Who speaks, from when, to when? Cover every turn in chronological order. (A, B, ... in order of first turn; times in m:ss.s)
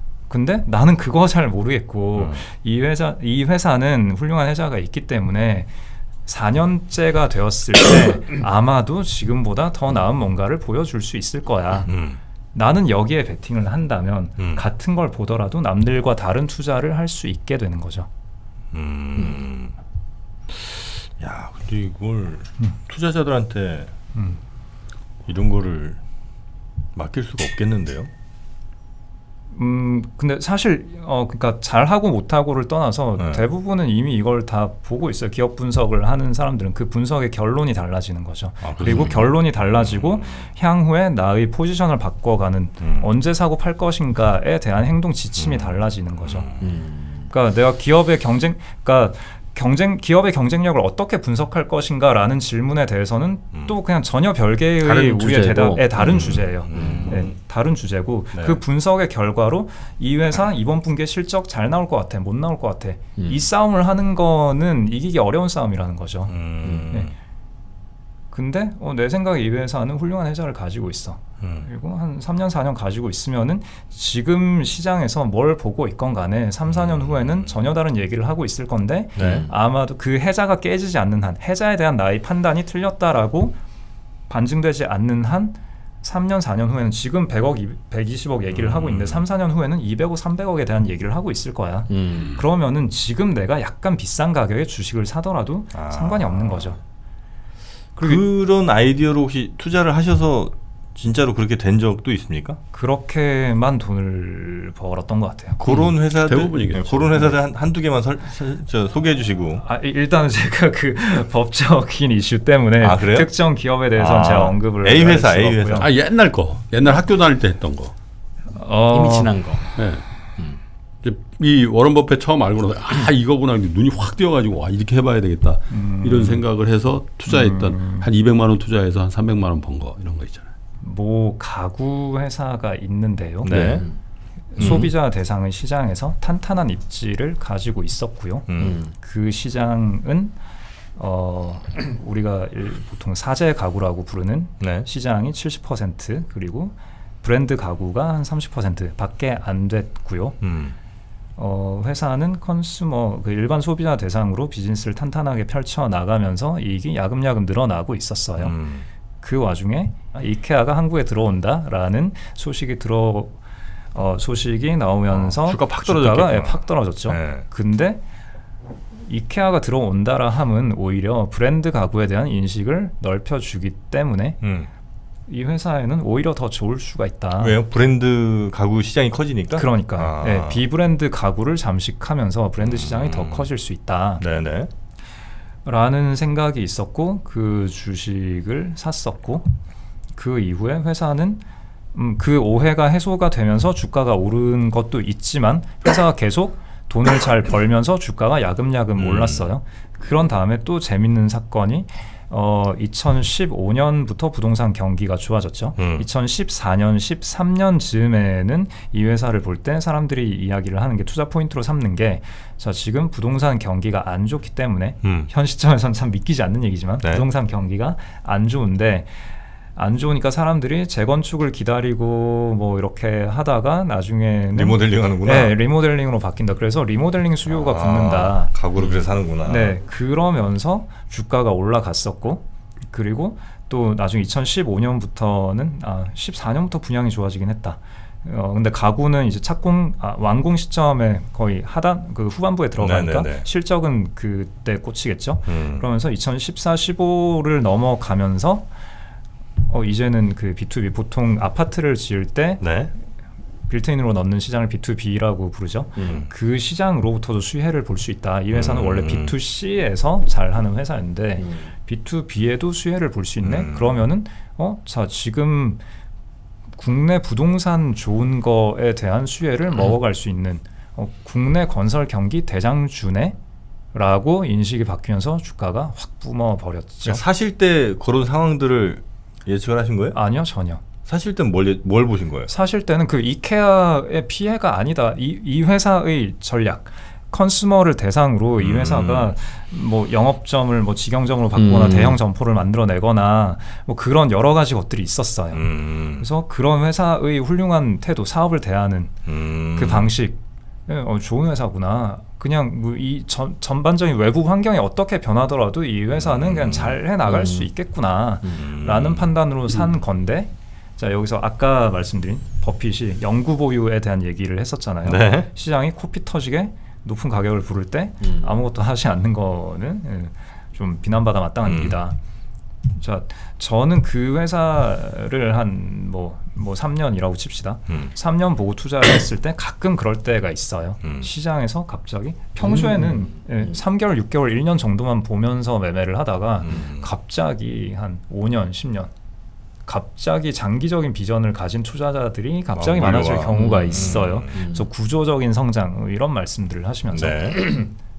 0:00.3-0:05.7 A
0:02.2-0:02.4 B
0:06.3-0:11.9 A
0:11.9-0:12.2 B
0:12.5-0:18.1 A
0:18.7-0:19.7 B
0:20.5-0:23.9 B
0:25.3-0:26.0 B
0:27.0-0:28.1 B
0:29.5-0:46.5 A
0:38.6-0:40.4 B
0:42.8-0:43.1 B
0:45.4-0:46.7 B
0:46.6-0:47.3 C
0:47.3-1:06.3 A
0:54.8-0:57.3 C
0:56.0-0:57.3 B
0:58.3-0:58.6 B
1:03.2-1:03.4 C
1:06.3-1:07.1 B
1:06.6-1:06.9 C
1:08.3-1:23.6 A
1:11.4-1:11.7 B
1:16.8-1:17.4 B
1:19.2-1:19.5 B
1:19.2-1:19.5 C
1:24.3-1:36.8 A
1:28.5-1:29.2 B
1:31.9-1:32.3 C
1:35.7-1:36.8 B
1:38.0-1:38.2 A
1:38.0-1:42.6 B
1:42.7-1:45.6 A
1:45.6-1:49.6 B
1:45.7-1:47.4 D
1:49.6-1:55.9 A
1:52.8-1:53.3 B
1:54.0-1:55.9 B
1:55.8-1:57.9 D
1:58.6-1:59.4 A
1:58.9-1:59.6 C
1:59.8-2:00.0 D
2:01.0-2:10.5 D
2:05.7-2:06.4 A
2:07.3-2:08.1 A
2:10.8-2:13.5 A
2:13.4-2:13.9 B
2:13.5-2:13.8 D
2:14.5-2:20.4 A
2:14.6-2:14.9 B
2:18.5-2:18.8 B
2:18.6-2:18.9 C
2:21.0-2:30.4 A
2:24.6-2:24.9 B
2:30.4-2:30.8 B
2:31.4-2:38.6 A
2:38.4-2:38.9 B
2:39.2-2:43.4 A
2:43.9-2:48.0 A
2:45.1-2:47.4 B
2:49.1-2:54.4 A
2:54.4-2:54.7 B
2:55.3-2:57.6 A
2:57.4-3:00.6 B
2:59.6-3:04.2 A
3:02.6-3:03.5 B
3:04.2-3:04.7 B
3:05.6-3:09.5 A
3:10.2-3:11.4 A
3:11.9-3:39.2 A
3:19.0-3:19.4 B
3:25.8-3:26.1 B
3:35.0-3:35.3 B
3:39.8-3:48.5 A
3:44.5-3:45.6 B
3:47.5-3:49.8 B
3:49.4-4:08.7 A
4:02.8-4:03.5 B
4:05.5-4:05.9 B
4:09.7-4:12.7 A
4:12.6-4:12.9 B
4:13.7-4:25.8 A
4:16.0-4:16.3 C
4:16.0-4:16.3 B
4:18.5-4:19.3 B
4:21.4-4:21.7 C
4:23.4-4:24.0 B
4:26.8-4:33.4 A
4:33.9-4:37.2 A
4:37.0-4:40.2 B
4:40.1-4:40.8 A
4:41.1-4:42.5 B
4:42.5-4:59.2 A
4:48.6-4:49.3 B
4:51.6-4:52.2 C
4:55.5-4:56.2 B
4:59.3-5:00.1 B
4:59.8-5:22.2 A
5:06.2-5:07.0 B
5:07.3-5:07.7 C
5:08.6-5:09.3 B
5:15.0-5:15.5 B
5:18.2-5:18.5 C
5:21.6-5:22.0 B
5:23.0-5:39.1 A
5:32.6-5:33.7 C
5:36.6-5:37.1 B
5:39.9-5:47.8 A
5:42.8-5:44.5 B
5:43.5-5:44.8 C
5:47.1-5:47.7 B